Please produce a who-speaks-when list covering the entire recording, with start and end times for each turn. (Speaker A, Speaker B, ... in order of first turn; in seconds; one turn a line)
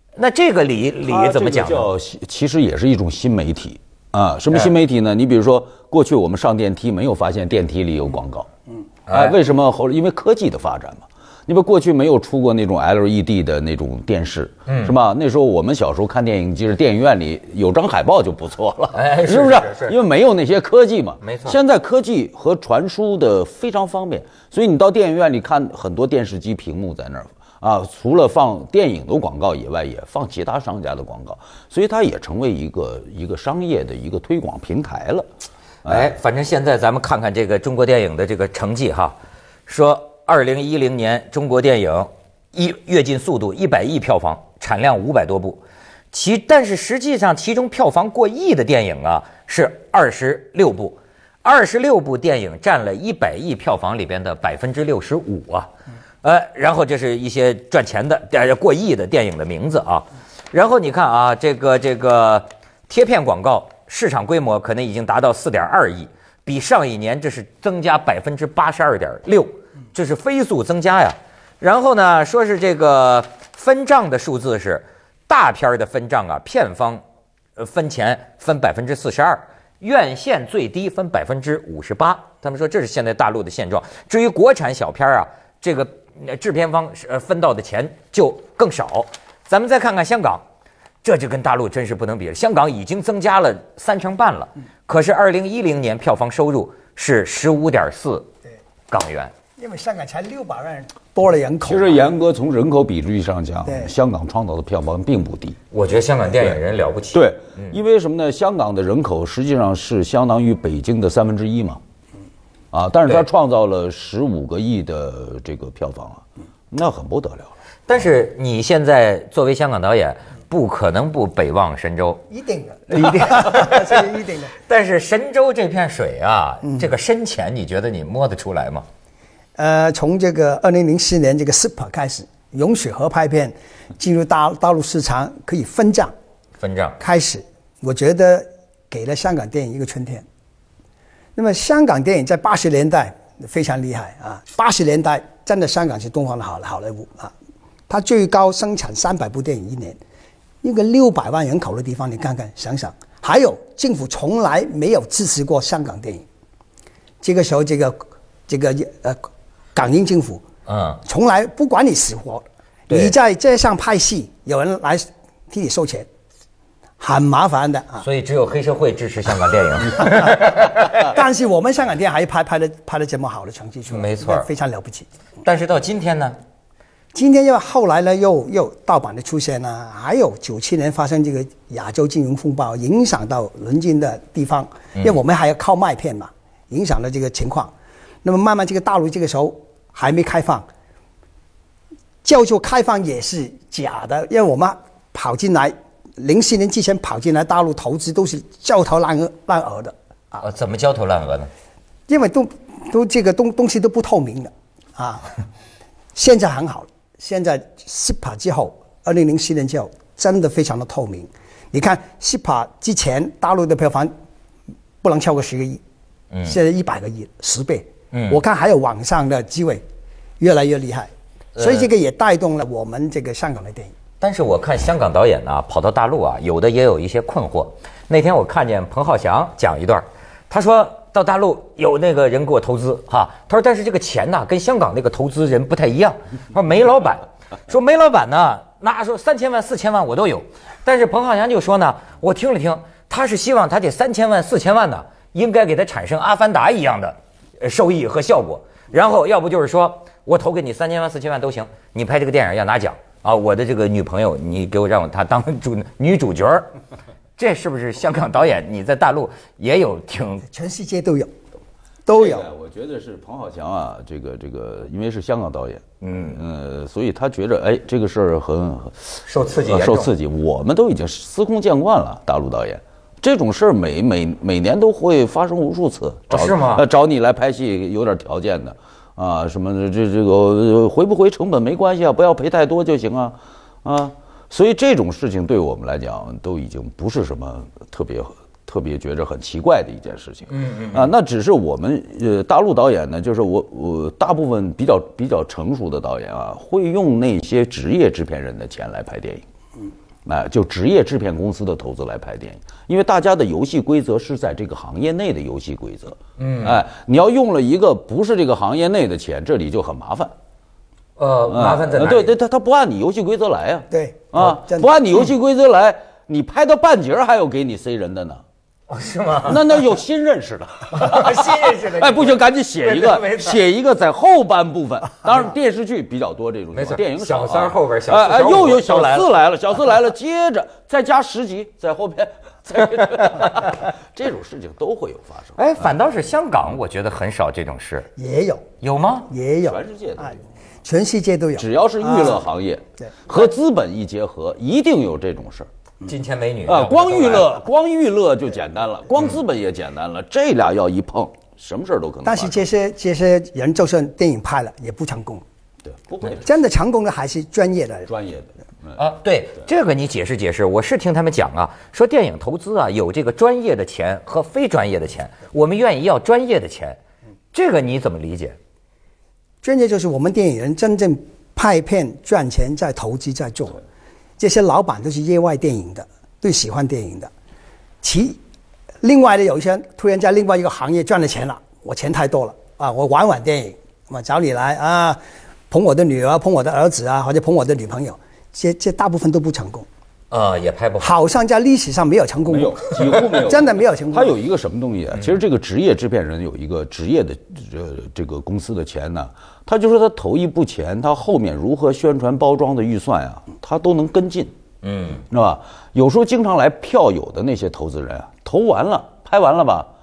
Speaker A: 0.2-1.9
Speaker B: 1.1-8.5
Speaker A: 9.1-9.4
Speaker B: 9.1-35.3
Speaker A: 14.7-14.9
Speaker A: 18.9-20.0
Speaker A: 21.2-21.6
Speaker B: 35.9-36.1
Speaker A: 35.9-39.1
Speaker A: 39.7-55.7
Speaker A: 56.2-77.0
Speaker A: 77.6-90.4
Speaker A: 91.0-98.3
Speaker A: 98.9-99.3
Speaker C: 99.6-102.0
Speaker B: 101.7-105.6
Speaker C: 103.7-103.9
Speaker A: 105.7-107.8
Speaker B: 107.1-111.8
Speaker B: 112.7-117.5
Speaker A: 117.9-122.2
Speaker C: 122.3-124.5
Speaker A: 122.9-124.0
Speaker A: 124.6-128.9
Speaker C: 129.6-136.1
Speaker A: 136.6-137.0
Speaker C: 137.0-140.2
Speaker C: 141.4-147.3
Speaker C: 147.9-150.0
Speaker C: 150.6-156.3
Speaker C: 157.2-160.4
Speaker A: 160.7-161.0
Speaker C: 161.0-166.1
Speaker C: 167.0-168.1
Speaker A: 168.0-171.1
Speaker C: 170.9-175.1
Speaker A: 173.9-174.5
Speaker A: 175.4-176.4
Speaker C: 177.1-187.7
Speaker C: 188.2-190.7
Speaker C: 192.2-200.4
Speaker A: 200.4-201.5
Speaker C: 202.1-205.4
Speaker C: 206.1-214.1
Speaker C: 215.0-215.8
Speaker C: 216.4-219.8
Speaker A: 218.1-218.4
Speaker C: 220.4-223.9
Speaker A: 221.6-221.9
Speaker A: 224.2-256.7
Speaker A: 257.4-260.4
Speaker C: 260.5-261.3
Speaker C: 262.1-262.5
Speaker B: 262.1-299.4
Speaker A: 266.0-266.4
Speaker A: 269.3-270.1
Speaker A: 276.3-276.9
Speaker A: 290.5-291.1
Speaker B: 300.3-310.3
Speaker A: 306.4-306.8
Speaker A: 311.2-312.4
Speaker B: 311.5-318.4
Speaker C: 313.9-314.9
Speaker A: 318.9-319.6
Speaker B: 319.4-335.9
Speaker A: 320.9-323.6
Speaker A: 326.7-329.3
Speaker A: 335.6-338.1
Speaker C: 338.2-338.6
Speaker A: 338.8-339.3
Speaker C: 339.3-342.5
Speaker B: 339.6-340.4
Speaker B: 341.6-345.7
Speaker A: 346.1-347.5
Speaker B: 346.7-352.7
Speaker C: 352.2-355.4
Speaker B: 355.9-356.6
Speaker C: 356.4-358.1
Speaker B: 358.1-359.0
Speaker A: 359.0-367.0
Speaker A: 367.5-368.6
Speaker C: 369.6-373.8
Speaker C: 374.4-377.3
Speaker C: 378.0-378.4
Speaker C: 379.0-389.9
Speaker A: 390.3-391.1
Speaker C: 391.0-394.4
Speaker B: 392.5-404.5
Speaker A: 404.8-405.2
Speaker B: 405.3-409.9